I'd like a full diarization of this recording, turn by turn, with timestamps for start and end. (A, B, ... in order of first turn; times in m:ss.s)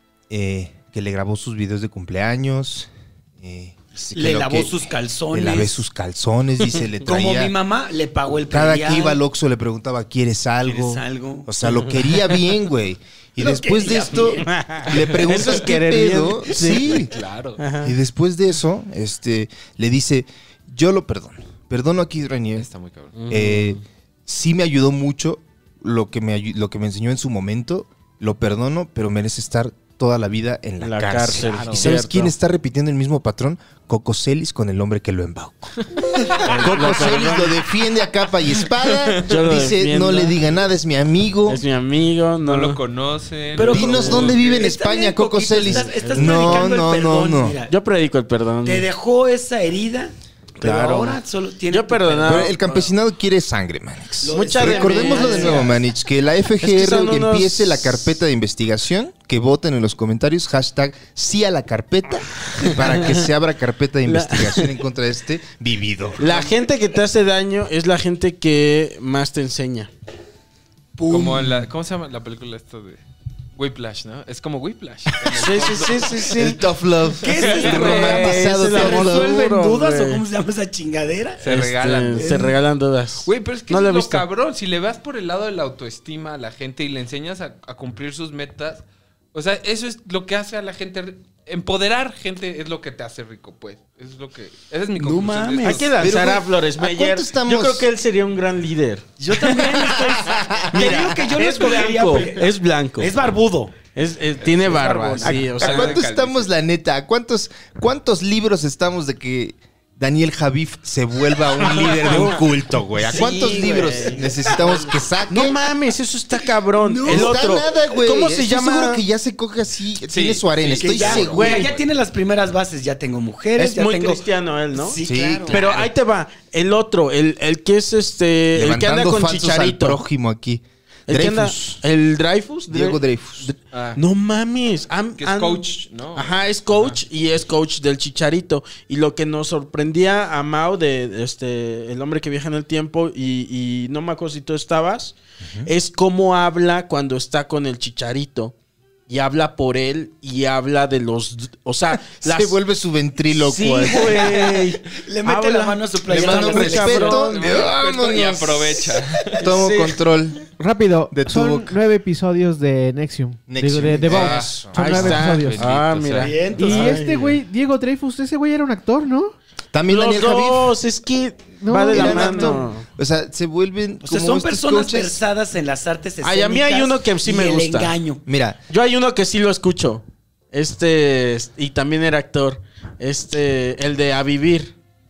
0:00.3-0:04.8 A
0:04.1-0:05.8 B
0:05.3-0:07.5 A
0:07.0-0:09.2 B
0:08.5-0:17.1 A
0:10.6-0:11.5 B
0:11.6-0:12.0 C
0:13.4-0:14.5 B
0:14.4-0:17.0 C
0:16.8-0:17.6 D
0:17.6-0:17.9 C
0:17.8-0:22.7 A
0:22.6-0:23.1 D
0:23.2-0:23.8 C
0:23.3-0:41.6 A
0:30.8-0:32.3 C
0:31.3-0:32.0 D
0:36.4-0:37.6 C
0:39.2-0:40.4 C
0:41.4-0:42.8 C
0:42.4-0:44.6 D
0:43.6-0:47.7 B
0:43.6-0:47.6 A
0:43.6-0:44.0 C
0:45.6-0:46.7 C
0:47.7-0:48.8 C
0:48.6-0:52.5 B
0:50.6-0:52.9 C
0:52.2-1:06.3 A
0:54.2-0:55.8 B
0:54.3-0:55.8 C
0:56.6-0:58.0 C
1:02.6-1:03.3 C
1:04.1-1:04.7 C
1:06.2-1:09.9 C
1:11.0-1:11.6 B
1:11.1-1:13.0 D
1:13.6-1:16.4 D
1:15.3-1:16.6 C
1:16.3-1:19.6 A
1:17.2-1:21.4 B
1:17.2-1:18.4 D
1:17.7-1:20.2 C
1:21.4-1:22.5 D
1:21.4-1:24.2 C
1:22.2-1:22.5 B
1:23.2-1:36.1 D
1:35.0-1:35.8 B
1:35.6-1:39.7 C
1:36.0-1:37.9 A
1:39.2-1:42.4 B
1:39.5-1:41.0 A
1:40.7-1:43.1 C
1:43.0-1:43.8 B
1:43.9-1:46.0 C
1:44.4-1:46.5 D
1:44.7-1:45.5 B
1:45.2-1:55.6 A
1:51.6-1:52.4 C
1:53.0-1:59.0 C
1:56.8-1:57.4 B
1:57.0-2:01.7 A
2:00.0-2:01.8 D
2:00.8-2:05.8 B
2:01.0-2:01.7 C
2:03.6-2:05.0 C
2:05.0-2:05.7 A
2:05.5-2:10.0 C
2:08.5-2:11.8 A
2:11.1-2:28.5 C
2:12.7-2:13.5 A
2:13.7-2:14.0 D
2:15.2-2:17.0 D
2:25.4-2:25.7 A
2:29.1-2:32.6 C
2:32.1-2:34.5 A
2:33.3-2:37.5 C
2:34.9-2:37.6 B
2:36.1-2:40.4 A
2:36.1-2:36.6 D
2:37.3-2:39.6 D
2:39.5-2:40.0 C
2:40.6-2:45.8 E
2:41.1-2:41.8 A
2:43.5-2:45.1 A
2:44.1-2:46.6 D
2:44.8-2:47.4 C
2:46.2-2:47.0 B
2:46.5-2:49.3 E
2:49.7-2:50.8 A
2:49.9-2:52.8 C
2:51.6-2:52.6 E
2:51.9-2:55.2 A
2:54.0-2:58.2 B
2:56.2-2:57.9 C
2:58.2-2:58.6 A
2:58.7-3:04.7 C